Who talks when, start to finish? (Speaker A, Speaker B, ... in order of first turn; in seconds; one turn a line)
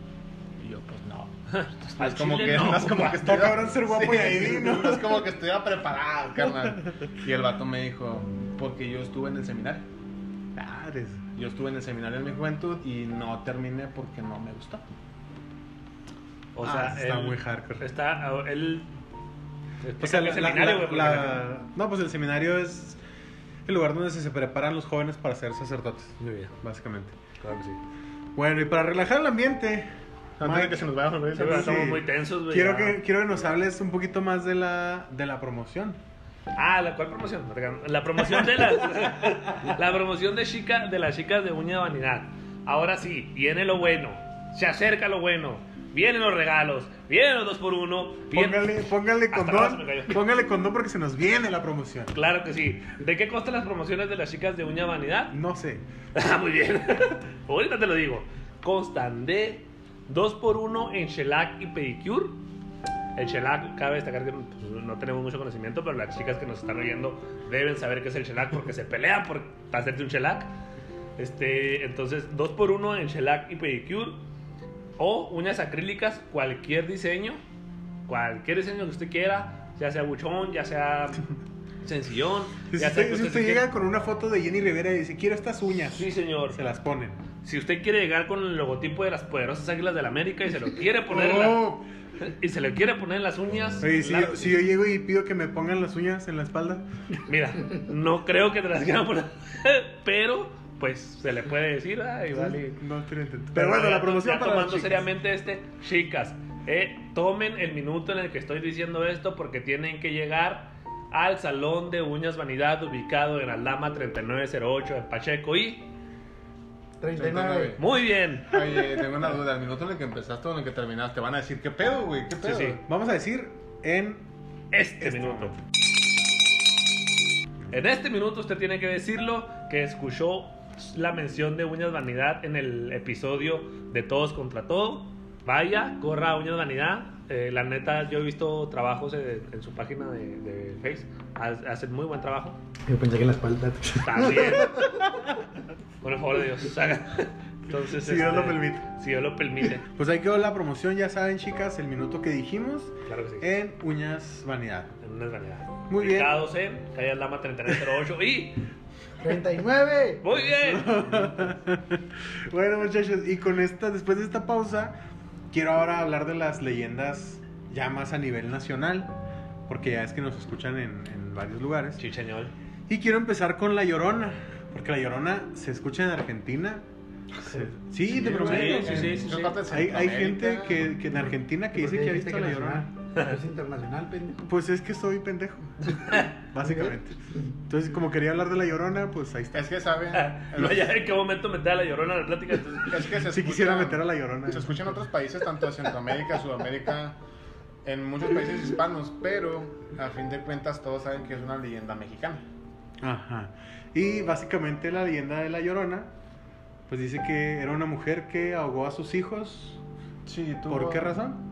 Speaker A: 0.6-1.3
Speaker B: 1.5-3.2
Speaker A: 1.9-9.9
Speaker C: 2.5-5.3
Speaker C: 6.4-7.0
Speaker C: 10.6-11.2
Speaker A: 11.4-14.8
Speaker B: 16.6-18.9
Speaker C: 16.6-17.9
Speaker B: 19.8-21.5
Speaker C: 20.0-23.0
Speaker C: 23.7-27.1
Speaker B: 26.2-26.6
Speaker B: 27.4-27.8
Speaker C: 28.4-36.0
Speaker A: 30.4-31.9
Speaker B: 31.3-33.6
Speaker B: 36.5-50.2
Speaker C: 38.2-39.3
Speaker C: 48.3-52.1
Speaker B: 52.1-55.4
Speaker C: 55.3-55.8
Speaker B: 56.1-62.4
Speaker B: 63.1-70.5
Speaker B: 71.2-74.2
Speaker B: 75.0-77.4
Speaker B: 78.1-81.3
Speaker B: 81.8-83.7
Speaker C: 82.7-87.2
Speaker B: 85.9-86.6
Speaker B: 87.4-94.7
Speaker C: 91.1-91.8
Speaker C: 93.8-96.8
Speaker B: 97.3-102.8
Speaker C: 102.4-105.1
Speaker B: 103.5-115.9
Speaker D: 117.0-117.8
Speaker A: 117.2-117.8
Speaker B: 117.8-118.6
Speaker A: 118.5-122.8
Speaker B: 122.4-122.8
Speaker C: 122.8-124.3
Speaker B: 124.7-125.6
Speaker C: 125.0-125.6
Speaker B: 127.7-142.6
Speaker D: 142.9-145.0
Speaker B: 144.0-144.8
Speaker B: 146.0-149.8
Speaker C: 147.7-148.8
Speaker C: 149.8-154.9
Speaker B: 153.1-153.5
Speaker B: 155.0-158.7
Speaker C: 155.9-156.4
Speaker D: 159.2-160.3
Speaker B: 160.2-161.0
Speaker C: 160.4-165.0
Speaker C: 165.5-169.1
Speaker C: 169.7-172.0
Speaker B: 172.0-172.5
Speaker C: 172.9-176.8
Speaker C: 177.4-182.9
Speaker A: 178.1-181.0
Speaker B: 178.3-179.6
Speaker D: 181.7-184.5
Speaker C: 184.5-189.7
Speaker B: 186.1-186.3
Speaker D: 186.6-187.4
Speaker A: 189.5-190.9
Speaker B: 190.1-193.0
Speaker A: 192.9-197.2
Speaker C: 193.1-194.9
Speaker A: 197.8-202.4
Speaker C: 203.0-206.1
Speaker C: 206.9-209.8
Speaker A: 210.3-211.2
Speaker C: 210.7-211.4